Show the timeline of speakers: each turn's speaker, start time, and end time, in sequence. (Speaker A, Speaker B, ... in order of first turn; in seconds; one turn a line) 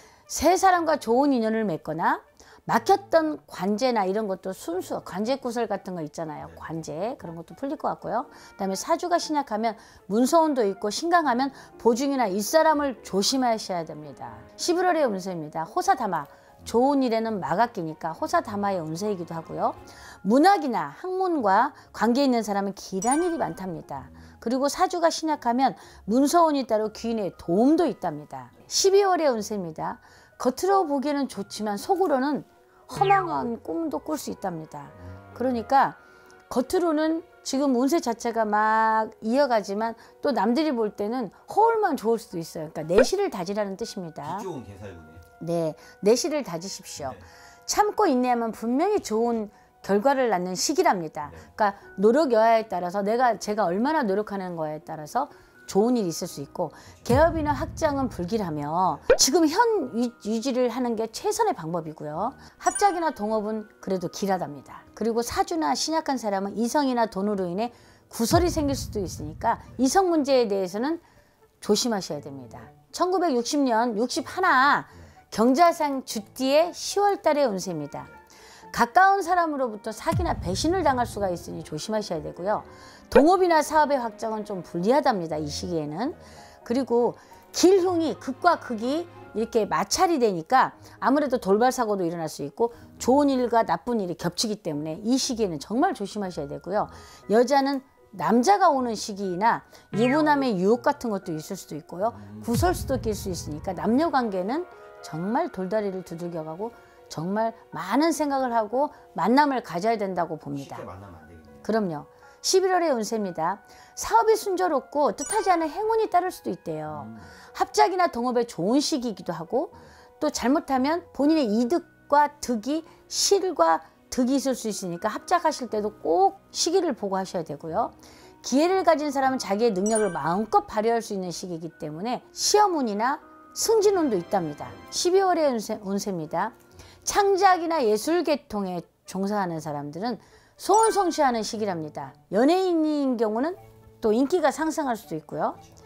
Speaker A: 0.3-44.5
Speaker B: 35.1-35.5
Speaker B: 44.2-45.2
Speaker A: 45.4-71.0
Speaker B: 47.0-47.2
Speaker A: 71.6-78.1
Speaker A: 78.7-110.8
Speaker B: 102.2-102.5
Speaker B: 110.5-111.7
Speaker A: 111.6-145.6
Speaker B: 116.9-117.3